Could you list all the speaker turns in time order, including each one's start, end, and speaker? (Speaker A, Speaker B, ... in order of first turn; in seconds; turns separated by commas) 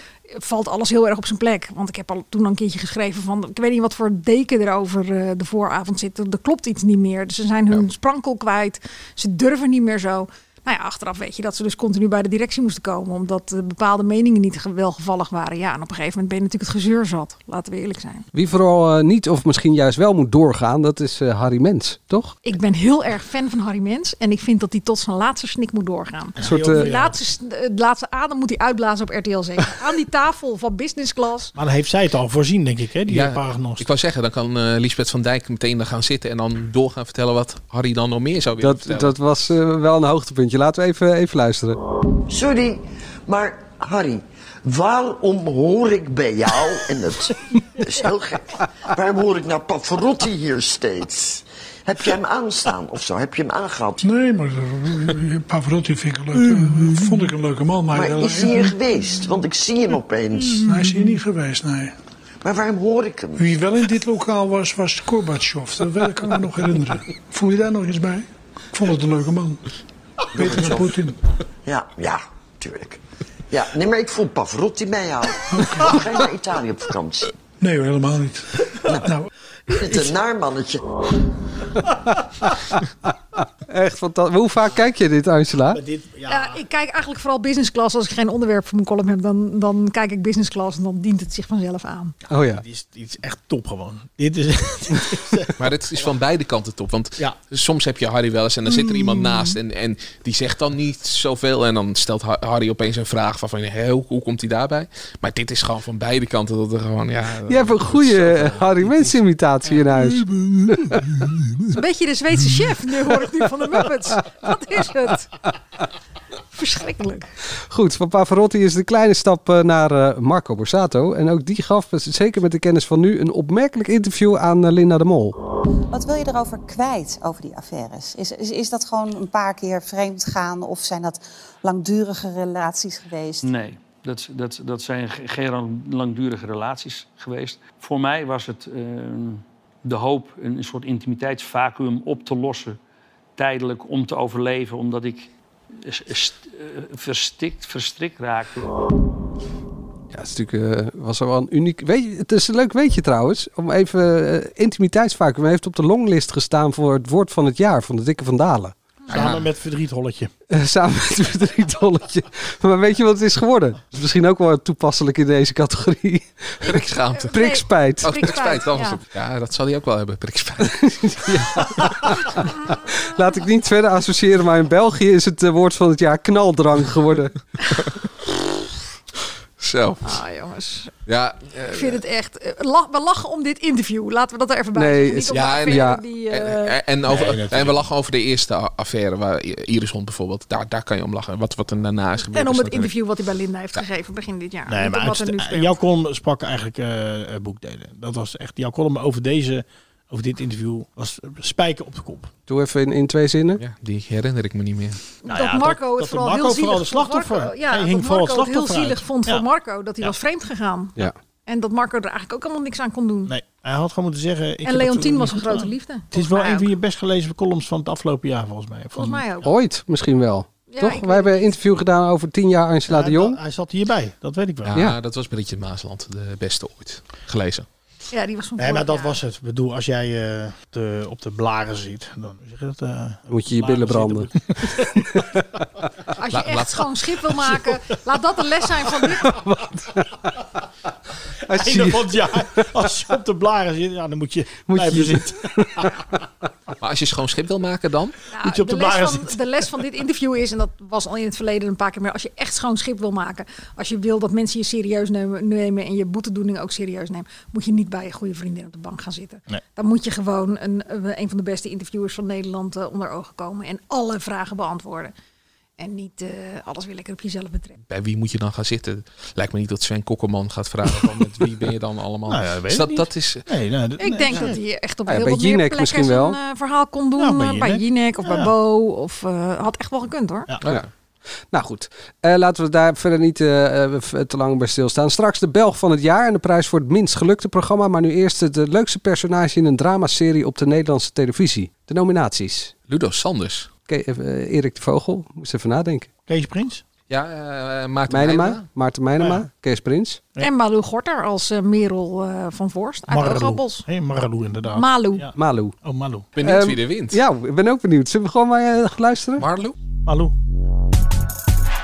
Speaker A: 0.3-18.2, Speaker B: 18.3-22.4, Speaker A: 22.4-31.5, Speaker C: 26.4-27.2, Speaker B: 26.4-26.9, Speaker C: 31.6-33.9, Speaker D: 33.1-39.1, Speaker B: 38.6-41.8, Speaker E: 42.3-54.0, Speaker F: 54.0-58.8, Speaker E: 57.9-60.7, Speaker F: 60.5-61.9, Speaker E: 62.4-63.5, Speaker F: 63.4-69.6, Speaker F: 70.3-71.2, Speaker E: 70.4-70.9, Speaker E: 71.6-77.3, Speaker F: 75.5-76.0, Speaker F: 77.6-79.3, Speaker E: 79.7-80.8, Speaker B: 83.7-85.8, Speaker C: 85.7-86.6, Speaker A: 86.3-92.1, Speaker B: 92.3-92.6, Speaker C: 92.3-95.5, Speaker D: 95.6-109.0, Speaker B: 107.5-111.0, Speaker A: 111.7-115.3, Speaker A: 116.5-117.3, Speaker B: 117.7-125.4, Speaker G: 125.9-133.4, Speaker H: 133.4-142.8, Speaker H: 143.4-148.7, Speaker B: 150.1-158.7, Speaker D: 159.1-159.4, Speaker C: 159.1-160.3, Speaker B: 160.5-168.3, Speaker D: 166.6-167.4, Speaker A: 166.7-169.0, Speaker D: 168.0-171.7, Speaker B: 170.7-177.3, Speaker D: 179.6-180.2, Speaker A: 180.0-180.9, Speaker D: 181.1-182.0, Speaker A: 181.7-186.7, Speaker B: 184.7-186.0, Speaker D: 185.3-192.9, Speaker C: 187.0-187.8, Speaker A: 192.2-195.8, Speaker C: 194.7-202.3, Speaker B: 202.5-203.6, Speaker D: 203.6-205.0, Speaker A: 205.2-213.3, Speaker C: 205.2-209.4, Speaker C: 213.3-219.4, Speaker A: 214.6-216.7, Speaker A: 218.9-219.5, Speaker B: 219.4-223.4, Speaker A: 220.7-221.5, Speaker C: 222.9-224.8, Speaker D: 224.7-227.7, Speaker A: 228.1-229.2, Speaker C: 228.6-235.2, Speaker B: 233.3-235.4, Speaker A: 236.2-239.4, Speaker D: 236.3-236.9, Speaker B: 239.2-240.3, Speaker B: 241.5-242.4, Speaker C: 241.5-245.9, Speaker B: 244.7-245.9, Speaker D: 246.8-248.2, Speaker A: 248.3-265.1, Speaker C: 248.4-249.4, Speaker A: 265.8-267.8, Speaker D: 267.9-273.4, Speaker C: 272.3-274.6, Speaker A: 274.0-280.5, Speaker B: 275.1-276.4, Speaker C: 277.2-278.5, Speaker D: 280.6-280.9, Speaker B: 281.5-292.7, Speaker D: 292.9-293.7, Speaker B: 293.9-296.1, Speaker C: 296.3-296.8, Speaker D: 297.1-298.6, Speaker B: 298.1-300.2, Speaker C: 299.2-299.4, Speaker A: 300.4-303.9, Speaker C: 303.1-306.3, Speaker A: 304.7-305.2, Speaker B: 305.3-305.7, Speaker D: 306.3-307.2, Speaker B: 306.4-309.5, Speaker D: 309.4-309.8, Speaker C: 310.1-310.3